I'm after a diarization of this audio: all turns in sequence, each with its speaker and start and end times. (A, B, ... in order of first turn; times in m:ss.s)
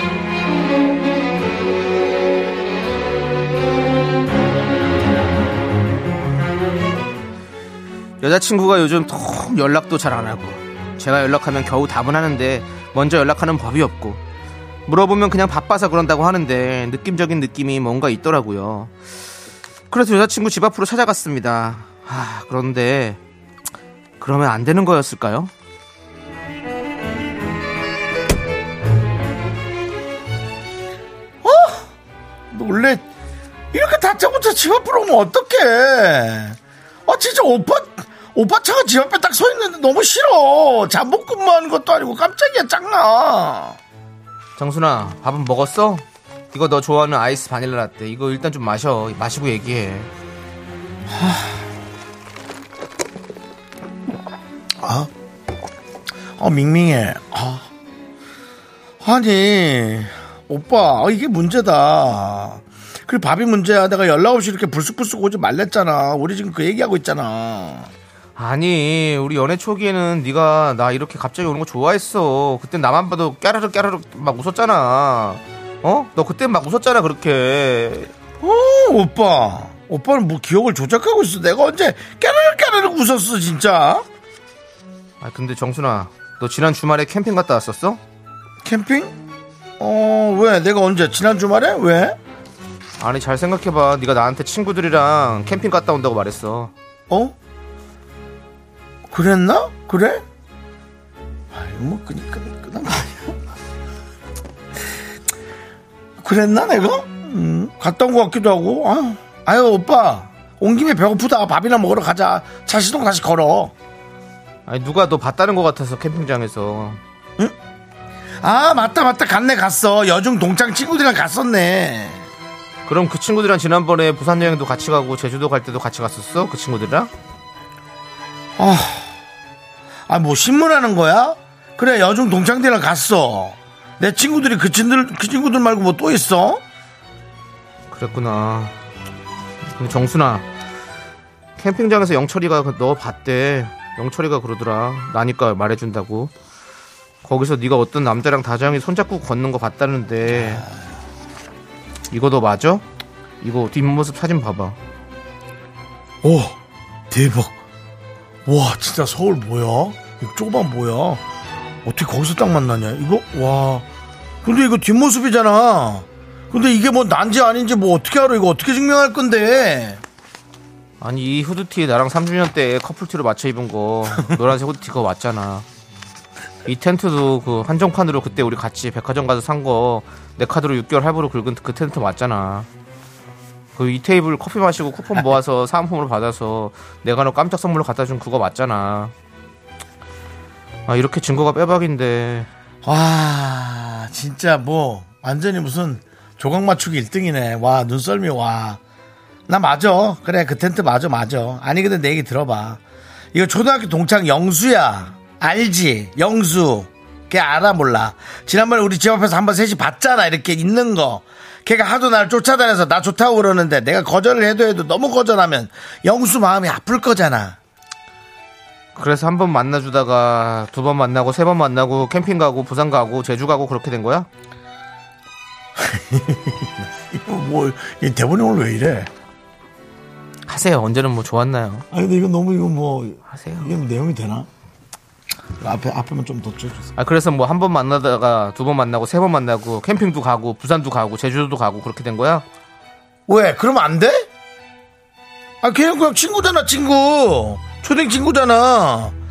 0:08.2-0:14.2 A
0:14.9-0:18.9 A
0:19.9-0:23.2 A
0:24.2-0:25.5 A
0:31.4-0:31.8 B
0:32.5-0:33.0 B
0:33.7-0:43.8 B
0:44.6-0:50.1 A
0:51.1-0:51.6 B
0:54.8-0:55.1 B
0:56.4-0:57.7 B
0:59.0-1:07.9 B
1:08.4-1:18.1 A
1:18.4-1:24.0 B
1:25.2-1:28.0 A
1:28.6-1:29.1 B
1:29.8-1:32.2 B
1:33.0-1:36.7 A
1:37.1-1:37.3 B
1:39.1-1:40.2 B
1:41.5-1:43.4 B
1:46.2-1:53.7 B
1:54.7-1:57.0 A
1:58.4-2:02.2 B
2:02.9-2:07.1 A
2:08.6-2:09.1 B
2:10.1-2:16.6 B
2:17.9-2:18.7 A
2:19.8-2:20.4 A
2:21.6-2:26.3 A
2:27.2-2:30.6 A
2:30.3-2:30.8 B
2:32.1-2:32.8 A
2:33.4-2:34.8 A
2:36.2-2:36.6 B
2:37.1-2:37.5 B
2:38.4-2:41.2 B
2:41.8-2:43.8 B
2:44.4-2:50.0 B
2:51.0-2:55.6 A
2:56.6-3:02.7 A
3:03.8-3:09.1 A
3:10.9-3:12.5 A
3:12.8-3:18.8 B
3:19.5-3:22.8 B
3:23.3-3:37.6 B
3:39.0-3:44.3 A
3:45.8-3:49.1 B
3:50.5-3:51.8 A
3:51.9-3:54.5 B
3:53.3-3:53.7 A
3:55.6-3:56.9 B
3:57.0-4:02.4 A
4:03.3-4:04.3 B
4:05.6-4:09.1 B